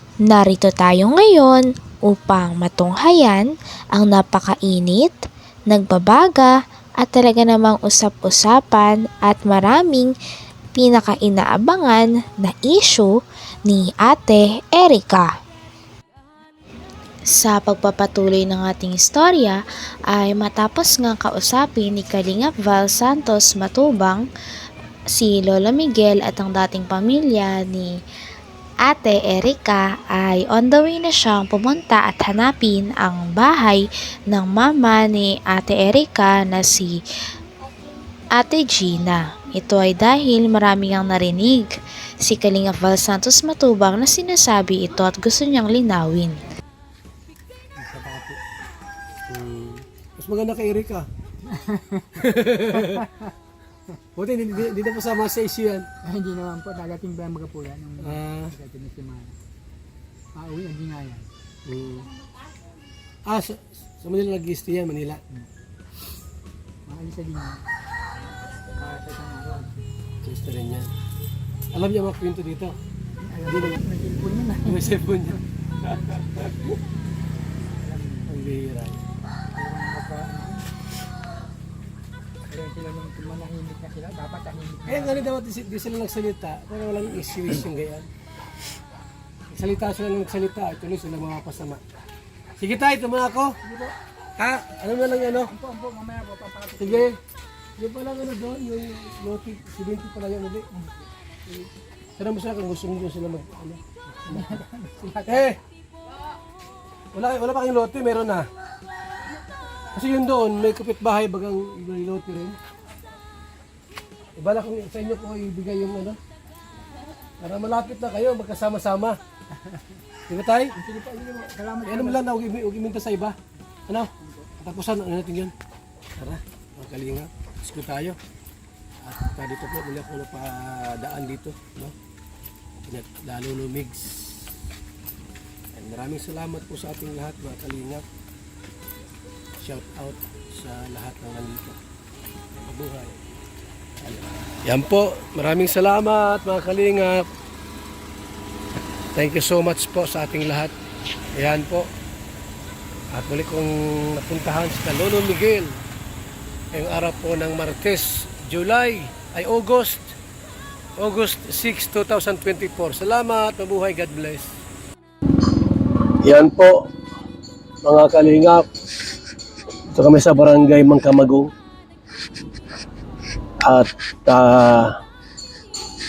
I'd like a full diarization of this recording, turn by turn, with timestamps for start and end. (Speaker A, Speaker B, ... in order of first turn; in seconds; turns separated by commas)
Speaker A: 0.3-5.1, Speaker A: 5.7-10.1, Speaker A: 10.8-13.1, Speaker A: 13.7-15.3, Speaker A: 17.4-19.6, Speaker A: 20.1-24.2, Speaker A: 25.1-27.9, Speaker A: 28.9-37.0, Speaker A: 38.4-41.7, Speaker A: 42.2-46.4, Speaker B: 47.8-48.4, Speaker C: 49.3-51.0, Speaker B: 51.5-52.2, Speaker C: 52.1-53.0, Speaker B: 52.9-53.2, Speaker C: 54.1-55.9, Speaker B: 56.0-59.4, Speaker C: 58.0-58.5, Speaker B: 60.3-61.3, Speaker C: 61.6-62.1, Speaker C: 63.2-65.2, Speaker B: 66.8-67.6, Speaker B: 68.8-69.9, Speaker C: 70.2-70.9, Speaker C: 71.7-72.7, Speaker B: 73.2-75.0, Speaker C: 73.4-73.8, Speaker C: 74.6-76.8, Speaker B: 77.8-78.3, Speaker C: 78.2-79.0, Speaker B: 79.5-80.6, Speaker B: 82.5-85.3, Speaker C: 84.8-88.1, Speaker C: 89.5-91.8, Speaker C: 92.6-93.6, Speaker B: 93.6-93.9, Speaker C: 94.4-95.5, Speaker B: 95.5-97.1, Speaker C: 96.8-97.2, Speaker C: 97.8-100.7, Speaker C: 102.2-104.6, Speaker B: 104.2-105.5, Speaker C: 105.2-105.6, Speaker C: 107.1-108.5, Speaker C: 109.9-112.6, Speaker C: 114.4-116.2, Speaker C: 117.4-119.2, Speaker C: 120.3-120.8, Speaker B: 120.7-122.2, Speaker C: 121.8-123.3, Speaker C: 123.9-125.5, Speaker C: 126.2-128.2, Speaker C: 129.0-131.9, Speaker C: 132.8-134.5, Speaker C: 135.7-138.0, Speaker C: 139.6-141.8, Speaker C: 142.6-143.2, Speaker C: 144.0-147.3, Speaker C: 149.1-150.7, Speaker C: 151.3-151.9, Speaker C: 153.1-155.8, Speaker C: 156.7-160.1, Speaker C: 161.0-164.5, Speaker C: 166.2-166.9, Speaker C: 167.8-168.6, Speaker C: 169.9-171.5, Speaker C: 173.6-174.9